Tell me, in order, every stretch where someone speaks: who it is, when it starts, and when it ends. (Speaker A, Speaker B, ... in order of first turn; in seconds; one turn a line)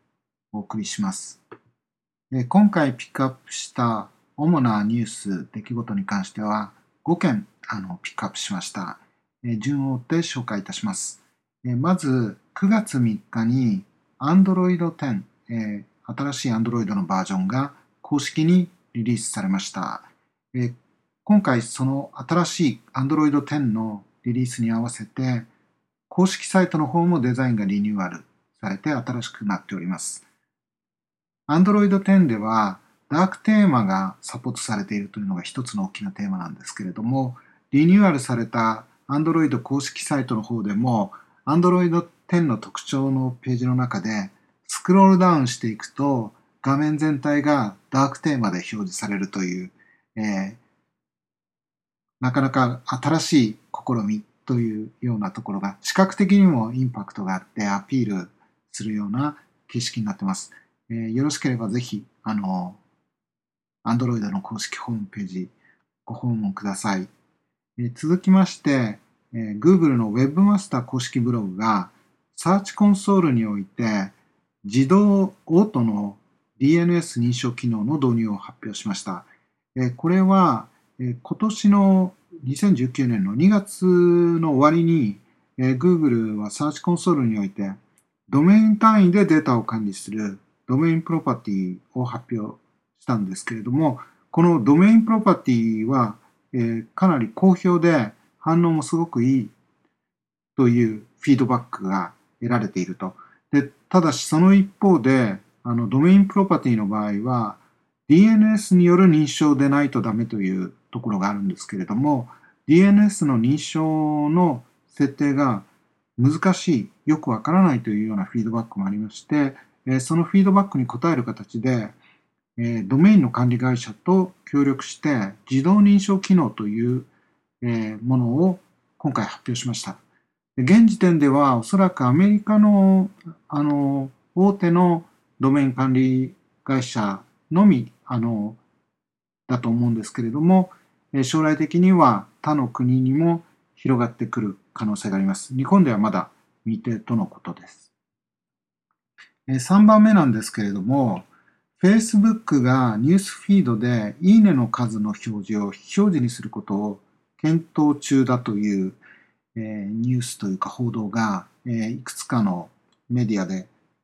Speaker A: 0.5-1.4
Speaker A: 2.3-25.5
Speaker A: 26.1-30.2
Speaker A: 31.5-50.6
Speaker A: 52.2-62.8
Speaker A: 63.8-65.5
Speaker A: 66.0-67.1
Speaker A: 67.8-87.8
Speaker A: 88.3-99.5
Speaker A: 100.5-115.7
Speaker A: 116.2-122.0
Speaker A: 122.6-127.1
Speaker A: 127.6-130.0
Speaker A: 130.6-138.6
Speaker A: 139.5-147.9
Speaker A: 149.5-151.3
Speaker A: 151.8-159.0
Speaker A: 159.5-163.7